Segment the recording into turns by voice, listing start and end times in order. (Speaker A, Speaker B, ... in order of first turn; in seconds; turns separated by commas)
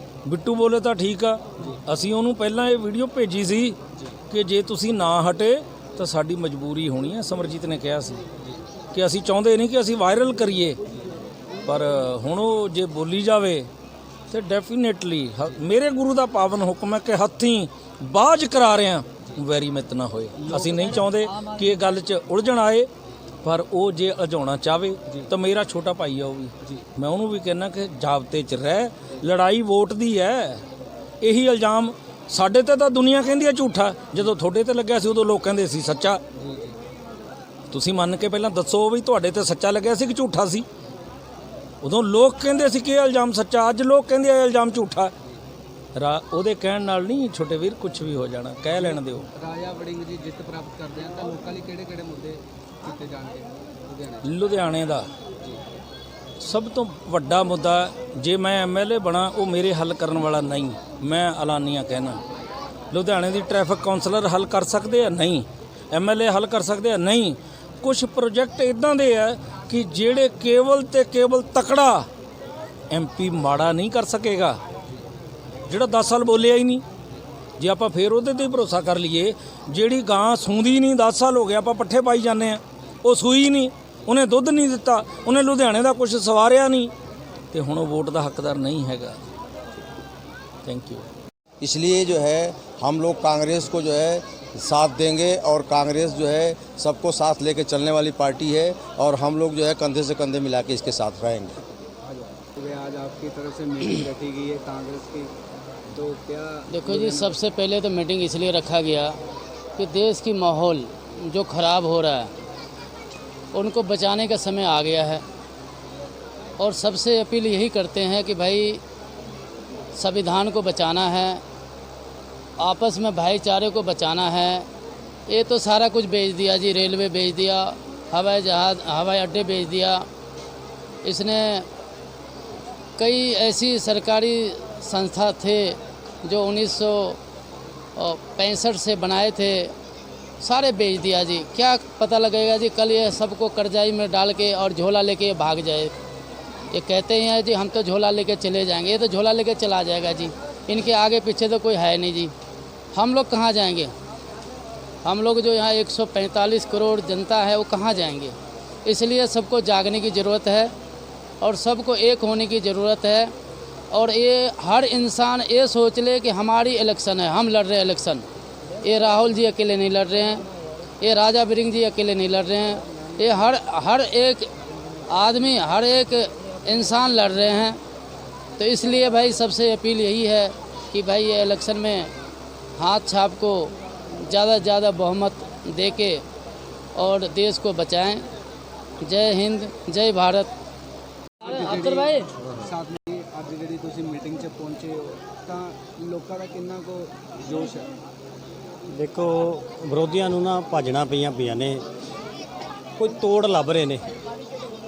Speaker A: 0.2-3.8, Speaker A: 4.3-8.2, Speaker A: 8.9-10.8, Speaker A: 11.7-13.7, Speaker A: 14.3-22.9, Speaker A: 23.4-30.6, Speaker A: 31.2-36.2, Speaker B: 36.4-36.8, Speaker A: 37.7-40.6, Speaker A: 41.8-45.1, Speaker A: 46.0-49.2, Speaker B: 48.7-54.3, Speaker A: 54.2-55.1, Speaker A: 56.4-62.2, Speaker A: 62.9-72.0, Speaker A: 72.9-74.6, Speaker A: 75.7-76.8, Speaker A: 77.6-86.9, Speaker A: 87.5-89.2, Speaker A: 90.6-91.0, Speaker C: 91.6-101.5, Speaker B: 101.8-105.3, Speaker B: 105.9-107.3, Speaker D: 106.7-109.2, Speaker D: 109.8-112.3, Speaker D: 113.5-115.2, Speaker D: 116.6-118.8, Speaker D: 120.0-121.4, Speaker D: 122.6-124.7, Speaker D: 125.3-130.0, Speaker D: 131.0-131.7, Speaker D: 133.0-137.2, Speaker D: 137.9-139.7, Speaker D: 140.4-145.9, Speaker D: 146.7-152.3, Speaker D: 152.9-153.9, Speaker D: 155.0-160.7, Speaker D: 161.4-163.3, Speaker D: 163.9-168.2, Speaker D: 168.8-170.5, Speaker D: 171.0-174.5, Speaker D: 175.1-177.8, Speaker D: 178.6-182.1, Speaker D: 182.8-186.2, Speaker D: 186.9-188.2, Speaker D: 189.0-190.5, Speaker B: 191.4-197.9, Speaker D: 191.4-192.3, Speaker E: 198.9-201.8, Speaker E: 203.0-204.1